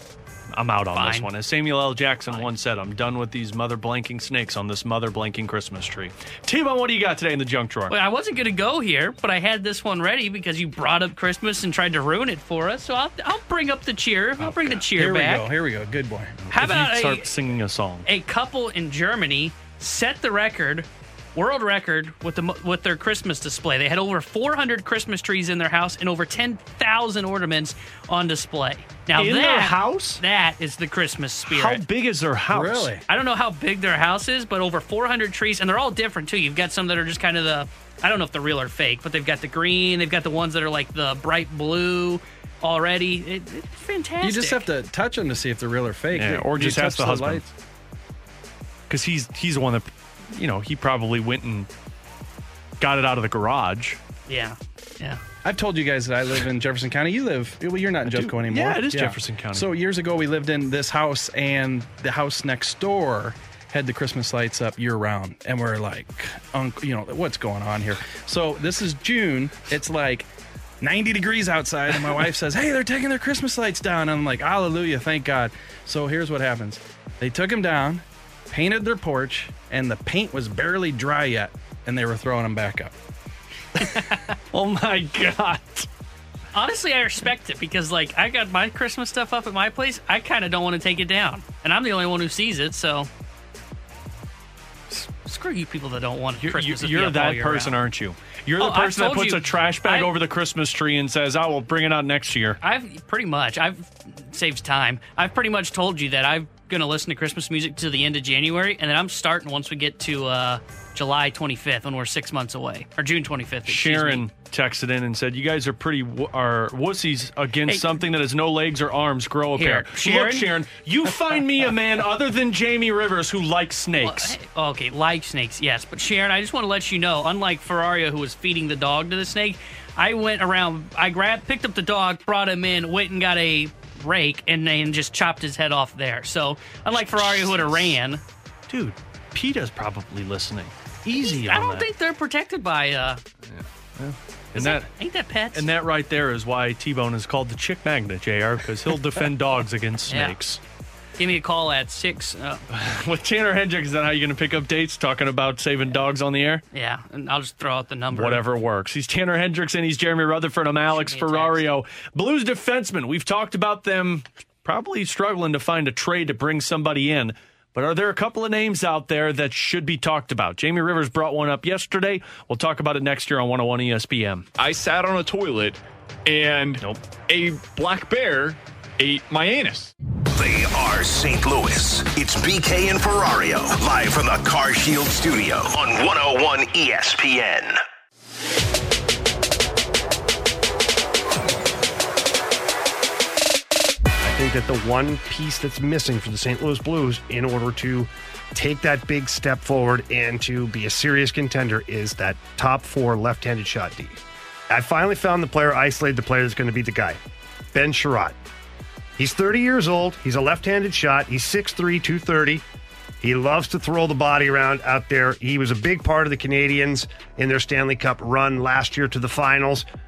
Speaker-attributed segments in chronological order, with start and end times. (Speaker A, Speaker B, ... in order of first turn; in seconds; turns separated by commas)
Speaker A: 0.5-8.0, Speaker B: 0.9-1.3, Speaker B: 7.9-15.5, Speaker A: 14.4-14.8, Speaker C: 14.9-16.4, Speaker A: 16.5-18.1, Speaker B: 16.5-17.3, Speaker B: 18.1-31.8, Speaker A: 29.1-30.2, Speaker A: 31.5-32.9, Speaker C: 32.5-33.0, Speaker B: 33.1-44.7, Speaker C: 44.2-47.5, Speaker A: 46.1-47.5, Speaker A: 48.9-51.7, Speaker A: 52.8-54.0, Speaker B: 54.3-55.2, Speaker C: 55.4-70.3, Speaker A: 58.1-59.7, Speaker C: 70.8-82.9, Speaker B: 83.9-84.3, Speaker A: 84.5-85.9, Speaker B: 86.5-93.1, Speaker B: 95.1-97.8, Speaker A: 96.4-102.6, Speaker B: 98.6-100.1, Speaker B: 102.6-114.2, Speaker A: 113.7-124.4, Speaker B: 117.7-118.0, Speaker B: 119.6-120.5, Speaker B: 124.0-138.2, Speaker A: 137.0-137.7, Speaker A: 138.7-141.9, Speaker B: 141.2-143.2, Speaker A: 143.5-144.9, Speaker B: 144.6-145.7, Speaker A: 145.5-150.6, Speaker B: 150.1-150.4, Speaker B: 151.2-152.6, Speaker A: 152.7-156.6, Speaker B: 156.7-158.4, Speaker A: 158.1-174.5, Speaker B: 160.9-161.7, Speaker D: 174.6-179.9, Speaker E: 180.3-187.8, Speaker F: 194.2-207.2, Speaker F: 207.7-208.4, Speaker F: 209.2-212.6, Speaker F: 213.2-219.8